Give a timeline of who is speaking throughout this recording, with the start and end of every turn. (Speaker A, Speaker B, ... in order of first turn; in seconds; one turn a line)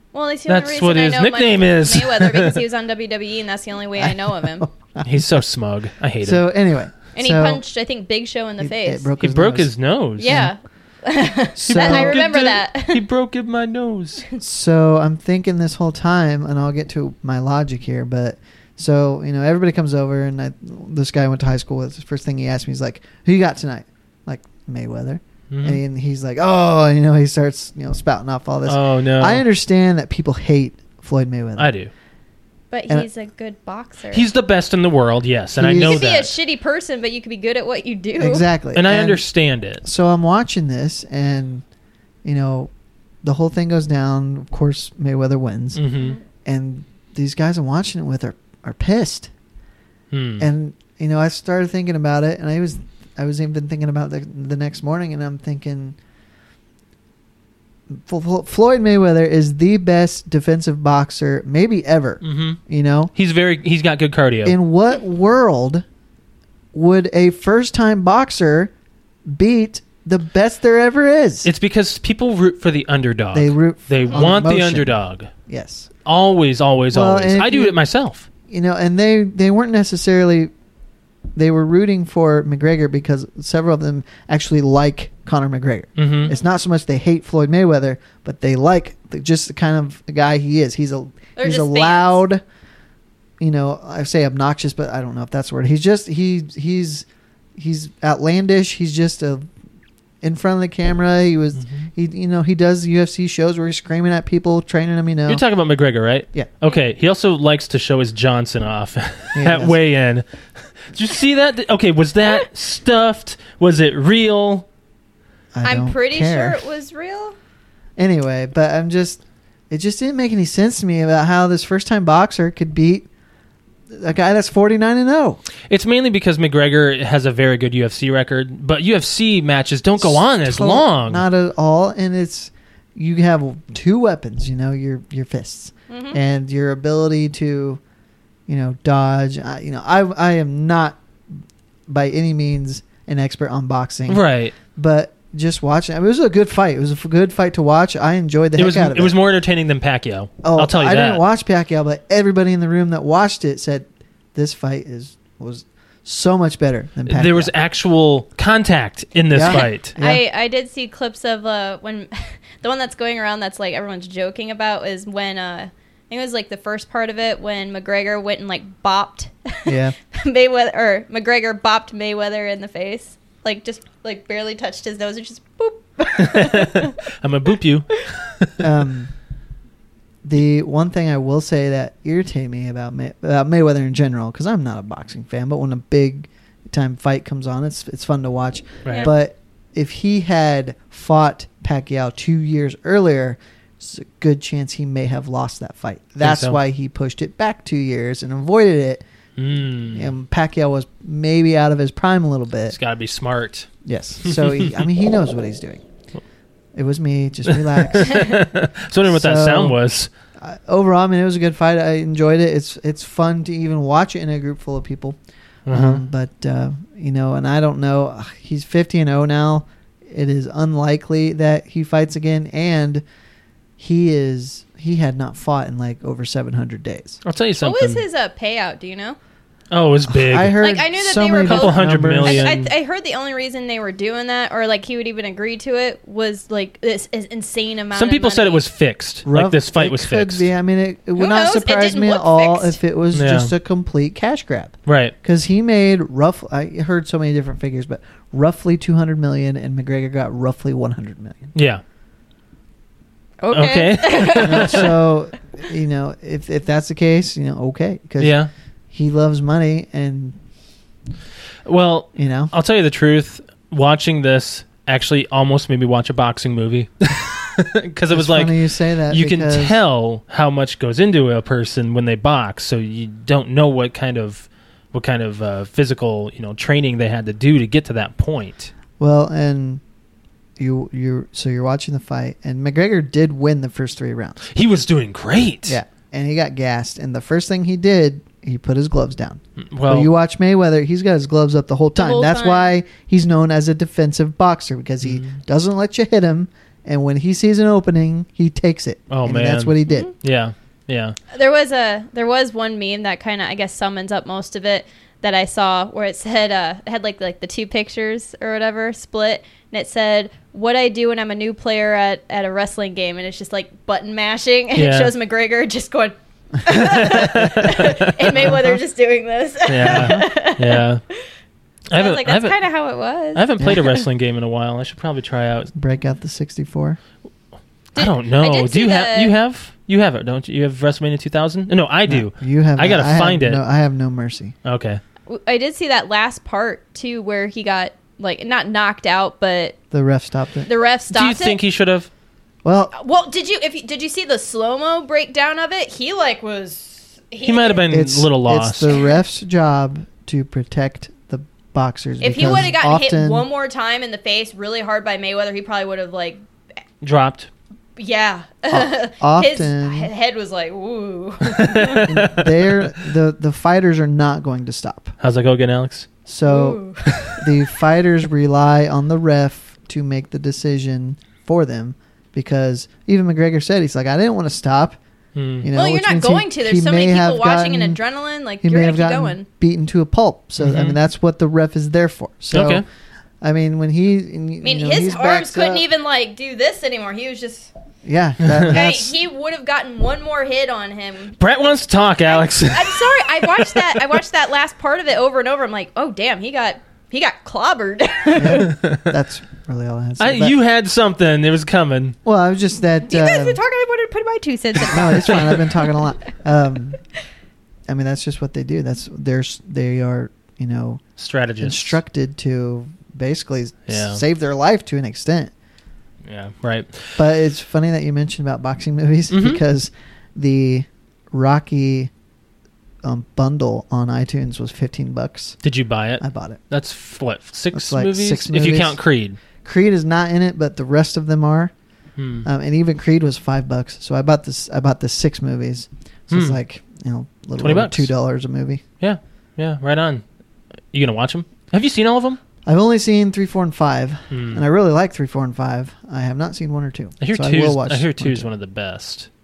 Speaker A: 0.1-4.7
Speaker B: 0.5-2.6
Speaker C: 4.0-5.3
Speaker B: 5.0-6.4
Speaker C: 6.2-7.6
Speaker A: 7.1-9.1
Speaker C: 8.6-9.7
Speaker B: 9.2-10.5
Speaker A: 10.2-13.0
Speaker C: 10.2-10.5
Speaker C: 11.6-12.2
Speaker B: 11.7-14.2
Speaker C: 14.4-31.7
Speaker B: 25.5-25.8
Speaker B: 28.6-29.4
Speaker B: 31.6-31.9
Speaker A: 32.7-34.3
Speaker B: 34.1-36.3
Speaker C: 35.5-36.1
Speaker A: 35.8-38.5
Speaker C: 38.2-39.2
Speaker B: 38.7-39.8
Speaker C: 39.8-41.6
Speaker C: 42.2-42.7
Speaker C: 43.2-45.9
Speaker B: 45.7-46.2
Speaker C: 46.4-49.3
Speaker B: 50.1-50.5
Speaker C: 50.4-56.0
Speaker C: 57.9-63.1
Speaker B: 62.2-62.6
Speaker B: 63.1-64.6
Speaker C: 64.4-65.8
Speaker C: 66.7-68.7
Speaker C: 69.3-71.5
Speaker B: 71.4-75.3
Speaker C: 73.3-75.9
Speaker B: 76.0-78.2
Speaker C: 76.9-77.8
Speaker C: 78.5-80.5
Speaker C: 81.3-92.4
Speaker B: 86.0-86.3
Speaker A: 91.4-92.2
Speaker C: 93.4-99.5
Speaker C: 100.2-105.4
Speaker B: 101.6-101.9
Speaker B: 105.3-110.2
Speaker C: 109.3-109.8
Speaker B: 110.8-114.7
Speaker C: 115.5-116.6
Speaker A: 115.6-117.4
Speaker C: 118.0-123.1
Speaker C: 123.9-125.4
Speaker B: 125.7-131.2
Speaker C: 130.0-137.8
Speaker A: 135.9-136.2
Speaker C: 138.5-141.0
Speaker C: 141.9-144.2
Speaker B: 144.1-144.5
Speaker C: 144.7-149.2
Speaker B: 148.6-151.2
Speaker C: 150.4-157.5
Speaker B: 157.1-159.9
Speaker C: 159.3-160.2
Speaker A: 159.5-176.9
Speaker C: 169.7-169.9
Speaker B: 176.2-178.7
Speaker C: 178.6-179.1
Speaker C: 180.2-199.0
Speaker B: 188.8-189.1
Speaker A: 188.9-189.1
Speaker B: 196.2-196.6
Speaker B: 199.4-200.1
Speaker C: 199.9-202.8
Speaker B: 202.7-203.7
Speaker C: 203.8-205.8
Speaker B: 204.2-204.9
Speaker C: 206.7-208.4
Speaker B: 207.5-210.1
Speaker C: 209.1-209.8
Speaker C: 210.4-215.2
Speaker B: 215.7-216.0
Speaker C: 215.7-223.0
Speaker C: 223.8-227.2
Speaker B: 227.2-228.0
Speaker A: 227.6-229.2
Speaker B: 229.7-230.6
Speaker C: 230.1-232.5
Speaker A: 230.6-238.6
Speaker B: 231.4-232.7
Speaker B: 237.9-240.5
Speaker C: 239.2-251.5
Speaker A: 241.2-242.8
Speaker B: 243.1-243.5
Speaker B: 244.9-245.1
Speaker B: 251.5-251.8
Speaker A: 253.4-254.9
Speaker B: 253.5-254.9
Speaker C: 254.4-258.4
Speaker B: 258.2-258.5
Speaker C: 258.9-260.4
Speaker B: 261.6-278.7
Speaker C: 262.1-262.5
Speaker C: 268.1-269.8
Speaker C: 279.0-279.8
Speaker C: 280.6-284.4
Speaker B: 284.5-285.8
Speaker C: 285.6-300.1
Speaker B: 289.6-290.1
Speaker A: 292.0-292.7
Speaker B: 295.0-295.4
Speaker B: 299.1-301.2
Speaker A: 299.9-300.1
Speaker A: 301.3-321.2
Speaker B: 314.7-315.1
Speaker B: 316.8-318.5
Speaker C: 318.5-318.8
Speaker B: 319.7-321.0
Speaker C: 319.8-320.2
Speaker B: 321.9-322.6
Speaker A: 321.9-324.0
Speaker B: 323.3-325.7
Speaker C: 325.7-327.0
Speaker A: 327.9-329.3
Speaker B: 327.9-333.6
Speaker C: 332.1-334.5
Speaker B: 334.6-335.0
Speaker A: 335.3-339.8
Speaker C: 339.9-340.7
Speaker A: 340.6-341.6
Speaker B: 341.1-342.1
Speaker C: 342.6-342.9
Speaker A: 342.9-347.9
Speaker B: 347.4-348.9
Speaker C: 347.9-353.4
Speaker A: 352.2-356.4
Speaker B: 357.0-357.5
Speaker A: 358.0-362.1
Speaker C: 358.7-360.1
Speaker B: 361.4-362.9
Speaker C: 362.1-365.1
Speaker B: 365.2-366.1
Speaker C: 366.2-375.0
Speaker A: 366.4-367.4
Speaker B: 375.4-375.7
Speaker C: 375.6-378.0
Speaker A: 375.7-379.4
Speaker C: 378.6-382.8
Speaker B: 380.6-381.0
Speaker B: 382.5-382.8
Speaker C: 383.4-385.9
Speaker A: 384.6-387.7
Speaker C: 388.0-389.1
Speaker B: 388.4-388.8
Speaker A: 388.7-391.6
Speaker B: 391.4-394.2
Speaker A: 392.2-398.7
Speaker C: 398.4-400.6
Speaker B: 398.5-399.1
Speaker B: 400.2-402.1
Speaker C: 402.2-403.6
Speaker A: 403.1-405.9
Speaker C: 404.8-407.0
Speaker B: 405.2-405.6
Speaker C: 407.9-411.0
Speaker B: 411.2-412.0
Speaker C: 411.6-415.5
Speaker B: 413.9-414.2
Speaker B: 416.2-417.2
Speaker C: 417.2-422.1
Speaker B: 419.3-419.6
Speaker C: 423.0-425.6
Speaker B: 425.6-429.4
Speaker C: 426.2-426.6
Speaker C: 427.7-429.0
Speaker C: 429.6-431.7
Speaker B: 432.2-432.4
Speaker C: 432.4-438.8
Speaker B: 436.3-436.6
Speaker B: 437.6-438.1
Speaker B: 439.0-440.2
Speaker B: 440.9-442.4
Speaker C: 442.6-448.5
Speaker B: 444.3-444.6
Speaker B: 447.2-449.3